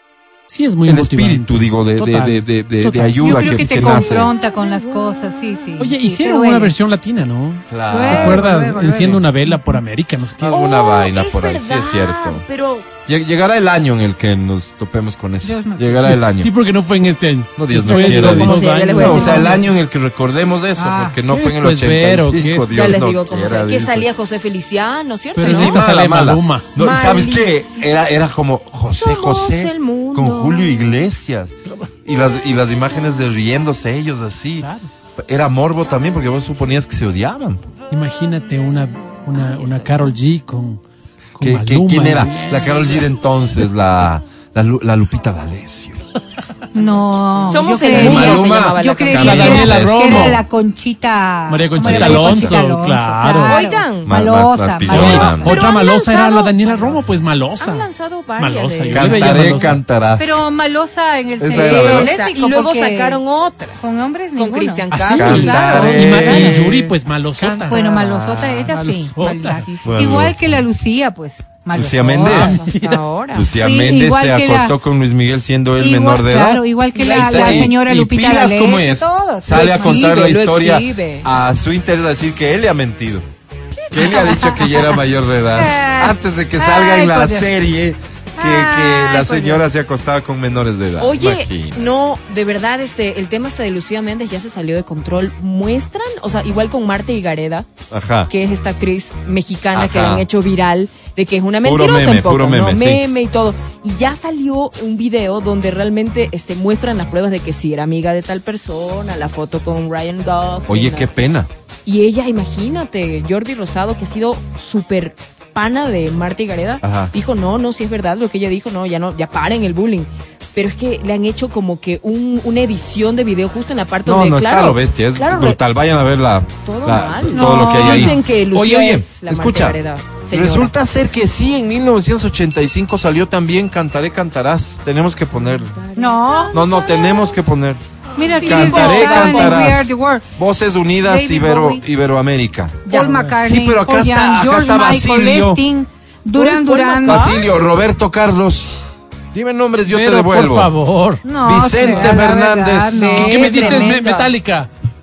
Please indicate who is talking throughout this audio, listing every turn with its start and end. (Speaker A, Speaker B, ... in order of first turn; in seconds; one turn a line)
Speaker A: 0.5-4.0
Speaker B: 0.9-4.3
Speaker C: 3.2-6.7
Speaker A: 5.8-10.6
Speaker B: 7.7-8.5
Speaker C: 7.9-9.8
Speaker B: 10.4-12.4
Speaker D: 10.5-12.9
Speaker B: 13.1-16.5
Speaker C: 15.4-16.1
Speaker A: 16.0-19.6
Speaker B: 17.6-24.1
Speaker D: 17.9-19.6
Speaker C: 20.8-21.2
Speaker A: 21.3-22.7
Speaker D: 22.7-25.8
Speaker A: 25.4-26.7
Speaker B: 25.4-37.7
Speaker D: 26.8-27.9
Speaker D: 28.9-30.9
Speaker A: 34.6-34.9
Speaker A: 37.9-40.8
Speaker D: 39.4-40.1
Speaker A: 41.4-43.1
Speaker B: 41.4-46.0
Speaker C: 46.7-55.9
Speaker D: 47.5-49.7
Speaker B: 47.9-50.4
Speaker A: 49.2-50.4
Speaker A: 51.5-53.6
Speaker B: 51.8-52.6
Speaker D: 53.4-54.1
Speaker B: 54.1-55.6
Speaker A: 54.9-57.9
Speaker D: 55.1-56.8
Speaker D: 57.6-59.6
Speaker A: 58.4-59.8
Speaker B: 58.9-60.3
Speaker C: 60.2-63.2
Speaker B: 61.4-62.1
Speaker D: 61.4-63.8
Speaker C: 63.8-66.7
Speaker D: 64.3-66.1
Speaker A: 64.9-67.8
Speaker B: 65.2-66.9
Speaker C: 67.4-72.5
Speaker B: 67.7-68.8
Speaker A: 68.7-69.7
Speaker D: 69.2-70.1
Speaker B: 69.8-70.6
Speaker B: 71.7-72.6
Speaker A: 72.2-73.0
Speaker D: 72.2-73.5
Speaker B: 73.3-83.2
Speaker C: 73.6-74.7
Speaker C: 75.8-80.2
Speaker D: 76.9-77.7
Speaker D: 79.5-81.3
Speaker D: 83.7-84.8
Speaker B: 83.9-91.8
Speaker C: 84.0-84.8
Speaker C: 85.5-87.5
Speaker C: 88.4-89.6
Speaker D: 91.0-97.7
Speaker B: 97.9-98.3
Speaker D: 98.3-111.1
Speaker B: 99.7-100.2
Speaker B: 101.6-103.0
Speaker B: 110.7-111.5
Speaker D: 111.9-125.6
Speaker B: 116.8-117.1
Speaker B: 124.0-129.8
Speaker D: 126.6-130.7
Speaker C: 127.3-128.2
Speaker B: 130.3-135.8
Speaker D: 135.4-137.3
Speaker C: 136.0-136.6
Speaker B: 136.5-137.8
Speaker C: 138.2-140.2
Speaker D: 138.3-139.7
Speaker B: 138.4-142.9
Speaker C: 141.0-141.8
Speaker C: 142.9-147.3
Speaker A: 143.0-143.3
Speaker B: 143.4-145.6
Speaker D: 146.3-147.4
Speaker B: 147.1-148.7
Speaker B: 149.3-150.7
Speaker A: 149.9-151.2
Speaker C: 151.2-154.0
Speaker B: 151.4-153.1
Speaker D: 152.9-154.3
Speaker A: 153.0-154.7